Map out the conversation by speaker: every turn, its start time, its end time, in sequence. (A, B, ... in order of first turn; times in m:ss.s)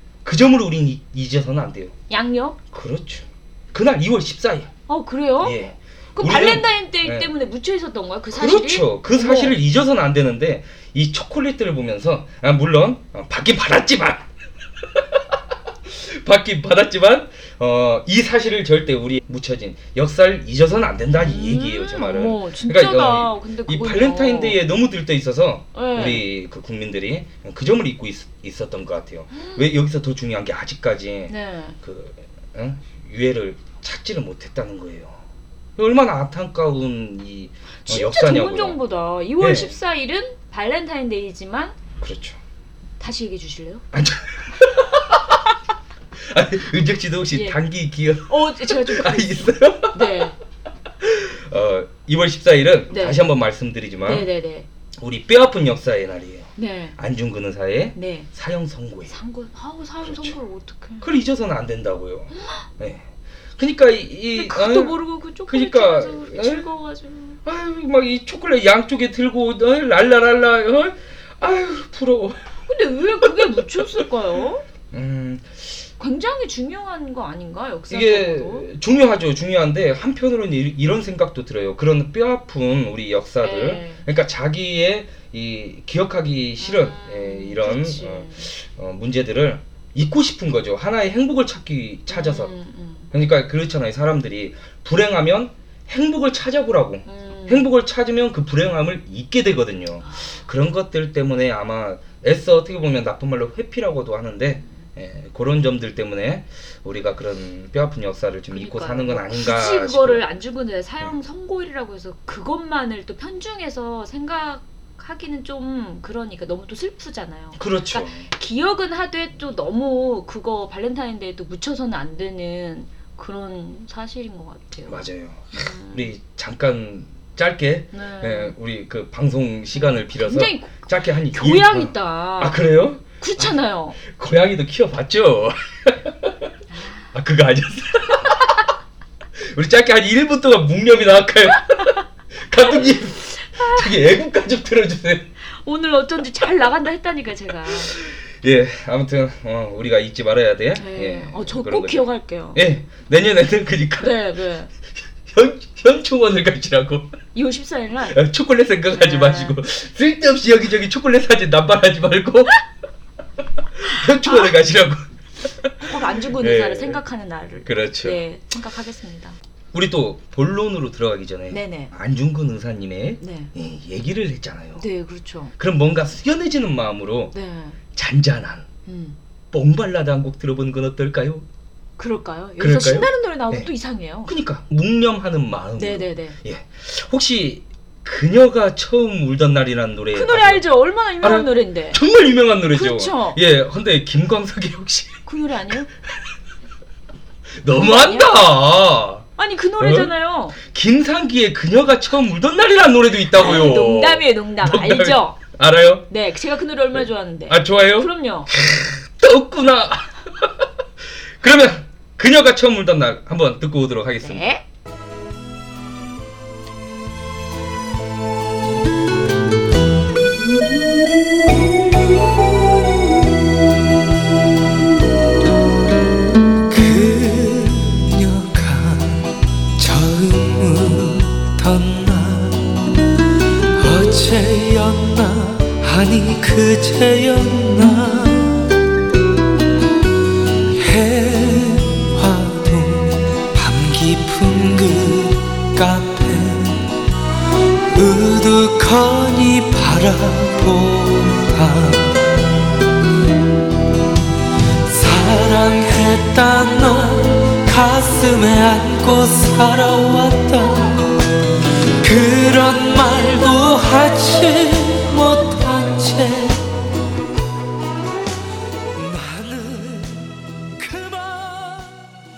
0:00.2-0:01.9 A
0:02.1-0:02.6 B
0:02.7-0:04.7 A
0:04.9-0:05.6 B
0:05.4-0:07.3 A
0:06.2-0:09.6 B
0:08.3-0:14.3 A
0:14.9-0:35.2 A
0:21.1-0:24.6 B
0:25.7-0:26.2 B
0:29.3-0:29.6 B
0:31.3-0:31.8 B
0:35.8-0:38.8 A
0:37.8-0:41.8 B
0:39.4-0:39.8 A
0:42.0-0:42.4 A
0:43.0-0:43.8 B
0:43.9-0:45.4 A
0:46.2-0:50.2 A
0:47.3-0:47.6 B
0:48.3-0:50.4 B
0:51.0-0:54.3 A
0:52.9-0:53.2 B
0:54.0-0:54.7 B
0:55.0-0:59.1 A
0:56.6-0:57.0 B
0:57.9-0:58.3 B
0:59.1-1:01.1 B
1:00.0-1:00.3 A
1:01.0-1:06.6 A
1:02.4-1:02.7 B
1:04.3-1:07.4 B
1:07.4-1:12.4 A
1:12.7-1:14.6 B
1:13.2-1:13.8 A
1:14.9-1:15.6 A
1:16.0-1:18.7 B
1:17.9-1:32.5 A
1:23.4-1:24.0 B
1:26.6-1:28.5 B
1:32.1-1:33.1 B
1:33.1-1:50.2 A
1:37.0-1:37.7 B
1:40.0-1:40.3 B
1:48.5-2:06.1 B
1:57.6-1:58.3 A
2:04.9-2:16.4 A
2:07.9-2:08.5 B
2:09.8-2:12.6 B
2:13.2-2:14.0 B
2:16.7-2:17.1 B
2:17.1-2:18.6 A
2:19.5-2:25.3 A
2:21.5-2:22.0 B
2:22.6-2:23.9 B
2:25.6-2:27.9 B
2:27.8-2:34.2 A
2:30.7-2:32.6 B
2:34.0-2:34.7 B
2:35.2-2:37.1 A
2:37.3-2:38.2 B
2:38.1-2:42.6 A
2:38.9-2:39.6 B
2:43.8-2:47.0 A
2:44.2-2:44.5 B
2:45.8-2:49.4 B
2:47.6-2:48.2 A
2:49.7-2:54.8 A
2:51.5-2:51.9 B
2:53.2-2:53.5 B
2:54.8-2:55.5 B
2:55.6-2:57.3 A
2:57.3-2:57.8 B
2:57.9-2:58.7 A
2:58.9-2:59.2 B
2:59.5-3:01.4 A
3:02.0-3:04.3 B
3:02.6-3:03.7 A
3:04.2-3:10.6 A
3:05.8-3:06.4 B
3:10.1-3:12.0 B
3:11.2-3:15.2 A
3:12.7-3:13.4 B
3:15.2-3:15.9 B
3:17.6-3:19.3 A
3:17.8-3:18.4 B
3:19.4-3:20.6 B
3:19.8-3:26.1 A
3:23.3-3:25.4 B
3:26.1-3:28.5 B
3:27.0-3:30.7 A
3:31.4-3:34.4 A
3:34.2-3:34.6 B
3:46.7-3:52.7 C
3:53.8-3:58.8 C
4:00.8-4:06.9 C
4:07.9-4:12.4 C
4:14.8-4:21.2 C
4:22.0-4:26.7 C
4:28.9-4:32.1 C